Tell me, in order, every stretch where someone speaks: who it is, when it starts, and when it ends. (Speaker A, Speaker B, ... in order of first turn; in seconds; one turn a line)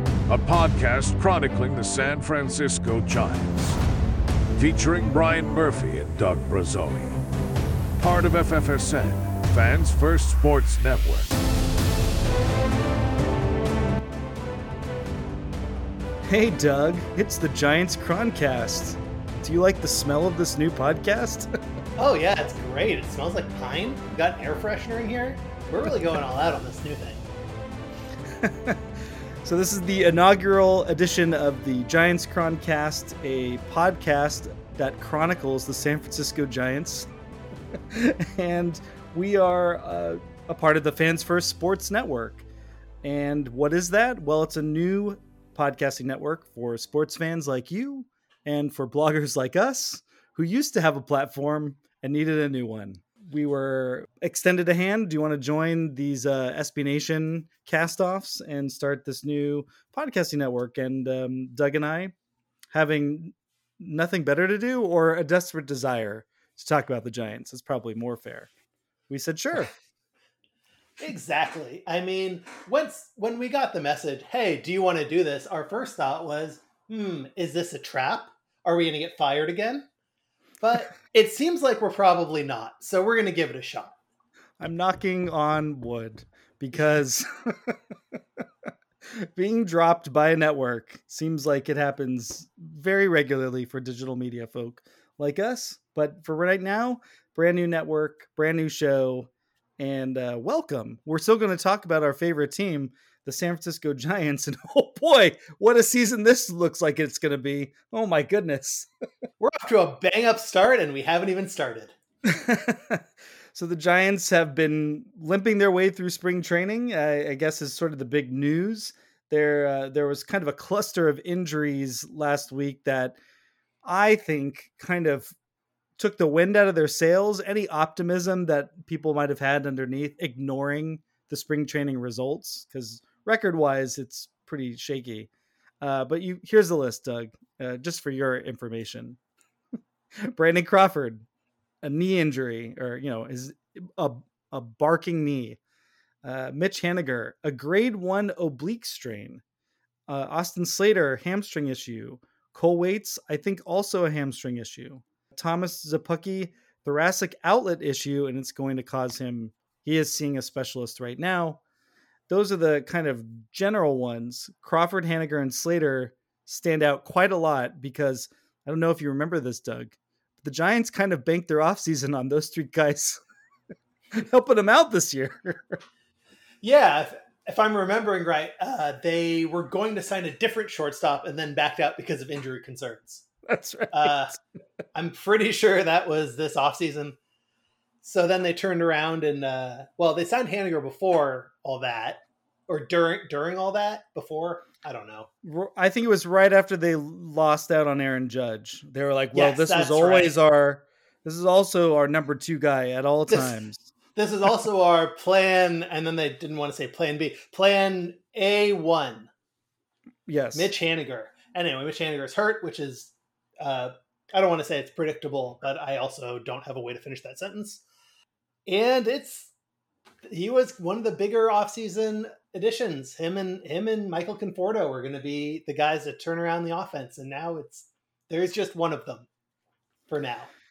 Speaker A: 0.3-3.8
Speaker A: 4.5-7.2
Speaker A: 8.0-11.4
Speaker B: 16.2-21.5
Speaker C: 22.0-27.3
Speaker B: 28.3-28.8
Speaker B: 29.4-37.1
Speaker B: 37.9-42.5
Speaker B: 43.0-62.1
Speaker B: 62.7-68.5
Speaker B: 69.1-69.7
Speaker C: 71.0-79.9
Speaker C: 80.6-84.0
Speaker B: 84.6-87.8
Speaker B: 89.1-108.9
Speaker C: 109.4-111.9
Speaker B: 112.2-123.2
Speaker B: 123.8-125.3
Speaker B: 126.0-135.3
Speaker B: 135.8-139.2
Speaker B: 140.2-141.2
Speaker B: 141.8-145.6
Speaker B: 146.2-149.4
Speaker B: 150.1-161.6
Speaker B: 162.3-173.2
Speaker B: 174.1-175.8
Speaker C: 176.6-183.3
Speaker B: 183.5-184.2
Speaker C: 183.9-184.4
Speaker C: 184.9-187.2
Speaker C: 188.0-195.3
Speaker B: 195.4-203.9
Speaker C: 199.3-200.3
Speaker C: 203.3-203.6
Speaker C: 204.1-209.3
Speaker B: 210.3-210.7
Speaker C: 210.5-217.8
Speaker C: 218.7-219.5
Speaker C: 220.2-229.3
Speaker C: 230.1-230.5